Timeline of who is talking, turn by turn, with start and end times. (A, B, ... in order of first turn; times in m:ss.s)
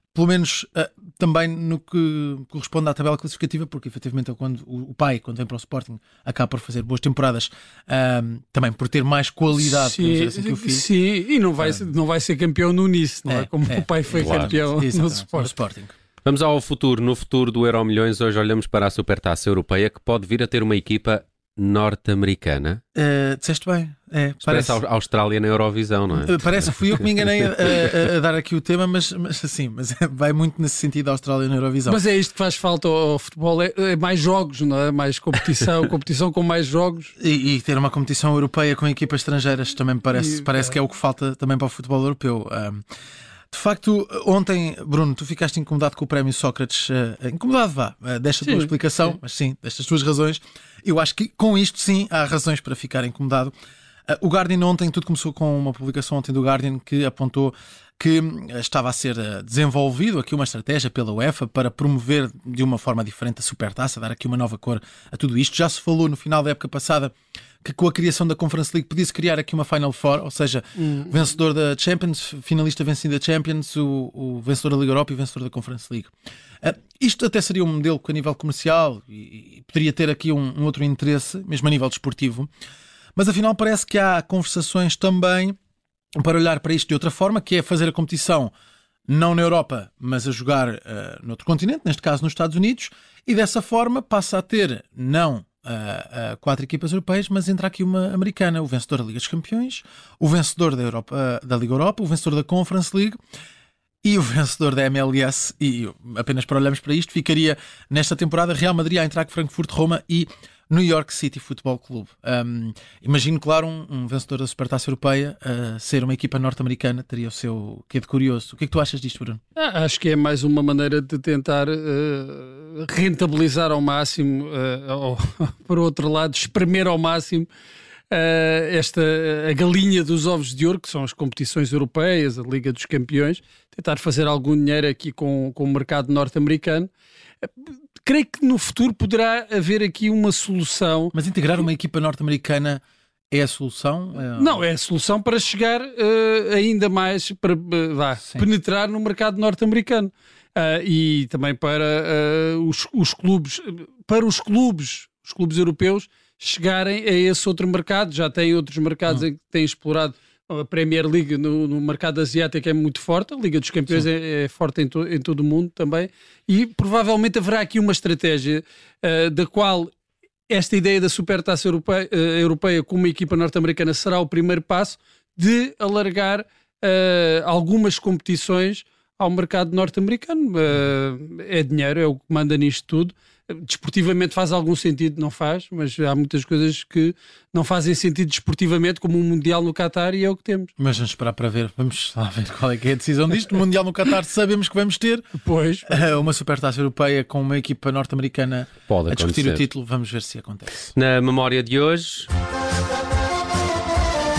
0:00.1-0:10.9 A
0:09.6-0:15.6 B
0:11.6-0:11.9 A
0:13.3-0:15.9 A
0:14.1-0:14.5 C
0:16.2-0:22.8 C
0:22.9-0:24.8 A
0:24.4-0:28.0 C
0:26.1-0:32.0 A
0:31.8-0:37.1 B
0:37.2-0:42.8 A
0:40.2-0:40.6 B
0:43.5-0:53.5 A
0:48.4-0:48.7 B
0:54.1-1:22.5 A
1:10.8-1:11.3 B
1:23.2-1:25.5 A
1:26.2-1:28.5 A
1:29.1-1:43.2 A
1:44.0-1:59.4 A
1:59.6-2:07.5 B
2:08.1-2:16.9 B
2:17.4-2:21.1 B
2:21.1-2:24.6 A
2:24.3-2:49.9 B
2:28.2-2:28.5 A
2:50.5-3:10.7 B
3:10.8-3:15.2 A
3:15.4-3:16.2 B
3:15.8-3:20.9 A
3:18.9-3:19.6 C
3:20.9-3:22.3 C